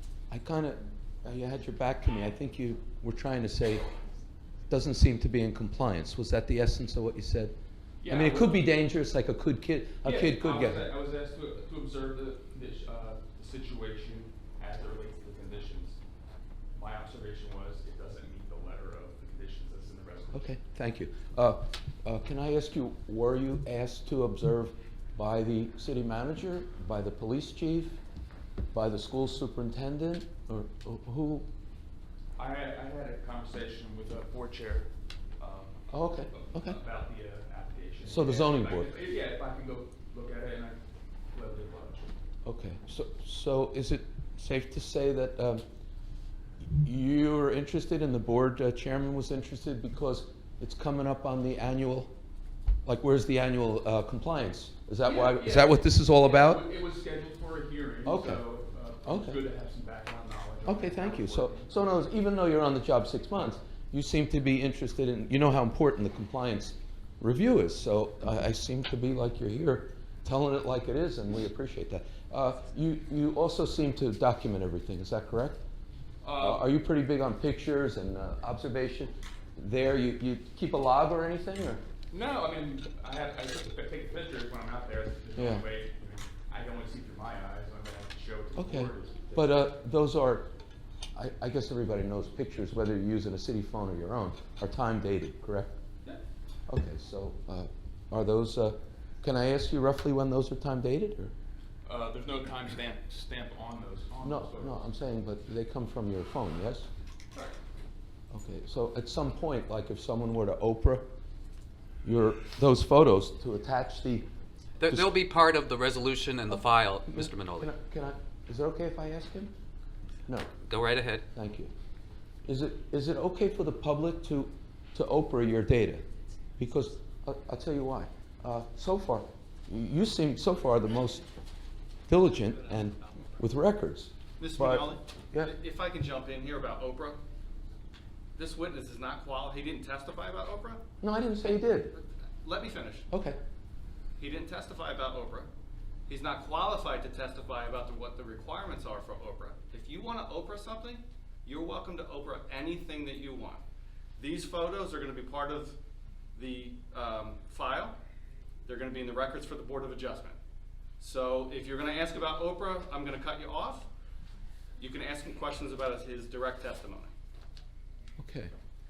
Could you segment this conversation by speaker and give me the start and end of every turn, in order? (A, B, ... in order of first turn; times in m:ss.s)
0:00.3-0:03.8 A
0:04.7-0:07.5 A
0:08.0-0:08.6 B
0:08.1-0:10.9 A
0:10.0-0:16.0 B
0:16.7-0:20.5 B
0:20.3-0:28.0 A
0:28.7-0:31.5 A
0:32.4-0:42.2 B
0:35.9-0:36.8 A
0:38.0-0:38.9 A
0:42.4-0:45.6 A
0:46.6-0:52.1 A
0:52.8-0:56.6 A
0:55.0-1:01.9 B
0:58.0-0:58.4 A
0:59.0-0:59.4 A
1:00.6-1:15.6 A
1:16.2-1:16.7 B
1:16.4-1:21.8 A
1:22.1-1:29.5 B
1:25.3-1:25.7 A
1:28.6-1:30.5 A
1:31.1-1:35.7 A
1:36.7-1:41.3 A
1:41.8-1:44.9 B
1:44.2-1:46.9 A
1:48.3-1:51.0 A
1:52.0-1:54.3 A
1:54.8-1:55.1 A
1:55.0-1:57.7 C
1:56.5-1:59.5 A
2:00.3-2:00.5 A
2:00.7-2:01.2 C
2:00.7-2:01.1 B
2:01.3-2:01.7 A
2:02.4-2:06.0 A
2:06.6-2:11.2 A
2:12.1-2:15.5 A
2:14.4-2:17.2 D
2:18.4-2:20.8 D
2:21.0-2:21.9 A
2:21.9-2:23.1 D
2:23.1-2:23.4 A
2:24.2-2:25.5 D
2:26.1-2:33.6 D
2:34.2-2:35.8 D
2:36.3-2:38.0 D
2:38.6-2:40.4 D
2:41.0-2:43.9 D
2:44.8-2:47.1 D
2:48.2-2:48.5 A